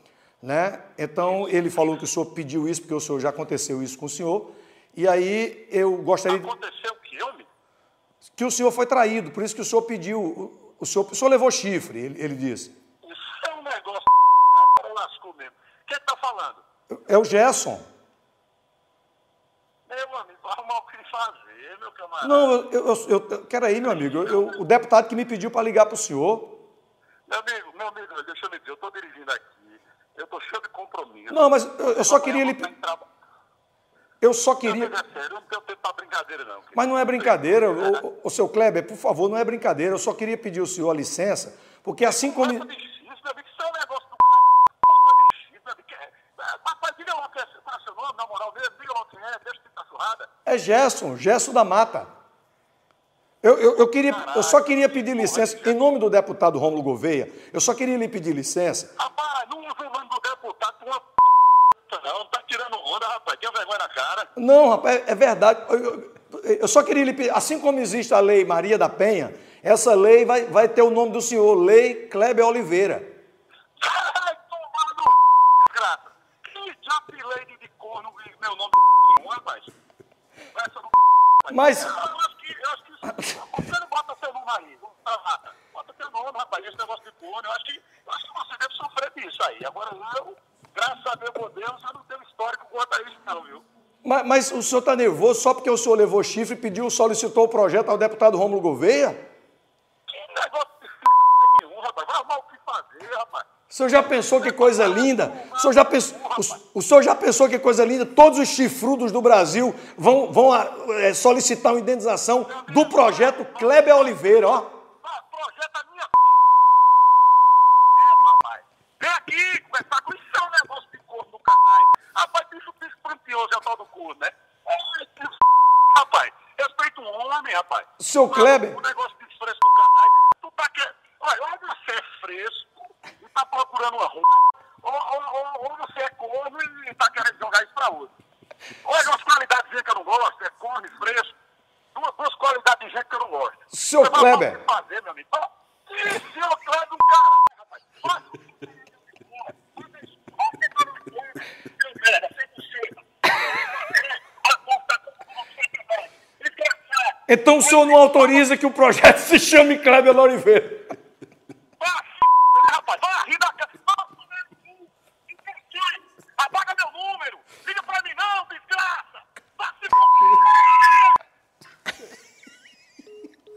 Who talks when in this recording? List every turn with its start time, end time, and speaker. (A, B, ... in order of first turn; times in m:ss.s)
0:00.4-0:06.5 A
0:01.4-0:01.7 B
0:06.3-0:07.5 B
0:08.3-0:12.7 A
0:13.0-0:16.6 B
0:16.9-0:17.8 A
0:19.9-0:22.6 B
0:22.2-0:26.6 A
0:23.9-0:24.6 B
0:27.3-0:33.1 B
0:31.3-0:32.7 A
0:34.2-0:35.0 A
0:34.6-0:38.0 B
0:36.7-0:42.7 A
0:42.0-0:50.3 B
0:50.5-0:52.1 A
0:53.4-0:58.9 A
0:53.7-0:55.8 B
0:59.0-1:04.3 B
1:04.4-1:13.1 A
1:13.8-1:19.7 B
1:20.5-1:33.6 B
1:21.5-1:21.9 A
1:23.1-1:23.4 A
1:34.0-1:39.2 A
1:40.1-1:43.5 B
1:43.7-1:54.8 A
1:44.0-1:46.6 B
1:52.5-1:54.3 B
1:55.0-1:56.4 B
1:58.0-2:05.4 B
2:05.9-2:18.1 B
2:08.0-2:08.8 A
2:18.8-2:21.4 B
2:22.0-2:38.5 B
2:23.7-2:24.6 A
2:37.3-2:41.0 A
2:41.8-2:51.2 B